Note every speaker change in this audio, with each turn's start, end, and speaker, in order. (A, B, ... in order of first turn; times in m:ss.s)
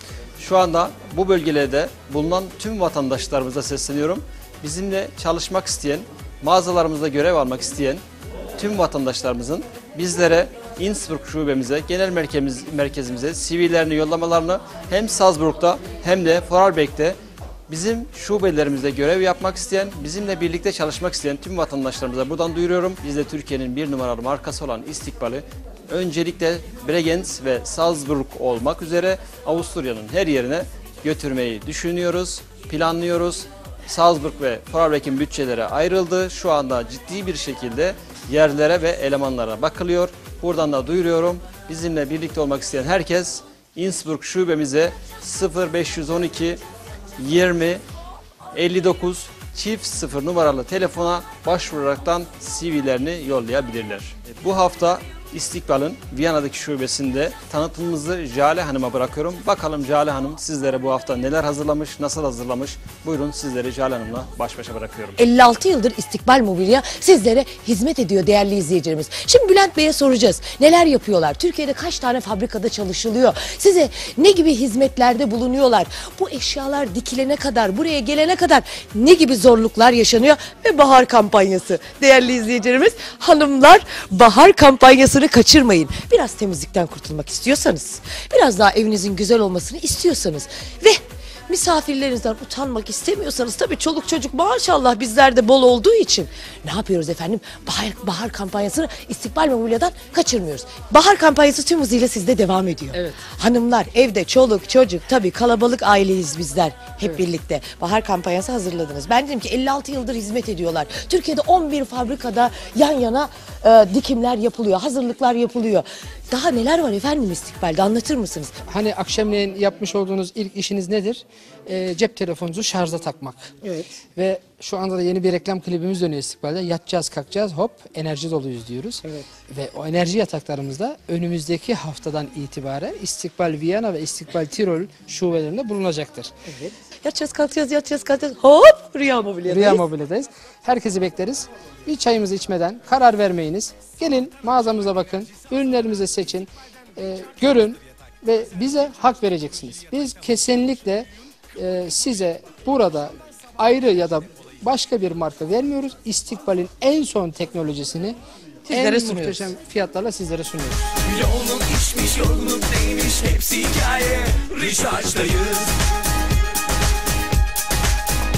0:00.4-0:08.0 A
0:08.6-0:17.2 A
0:17.7-0:46.6 A
0:47.2-0:47.8 A
0:48.5-1:05.2 A
1:05.2-1:58.5 B
1:42.9-1:43.2 C
1:58.6-2:03.5 C
2:04.2-2:16.3 C
2:16.6-2:19.8 B
2:19.5-2:38.2 C
2:38.6-2:39.5 B
2:38.7-2:41.0 C
2:41.1-2:45.8 D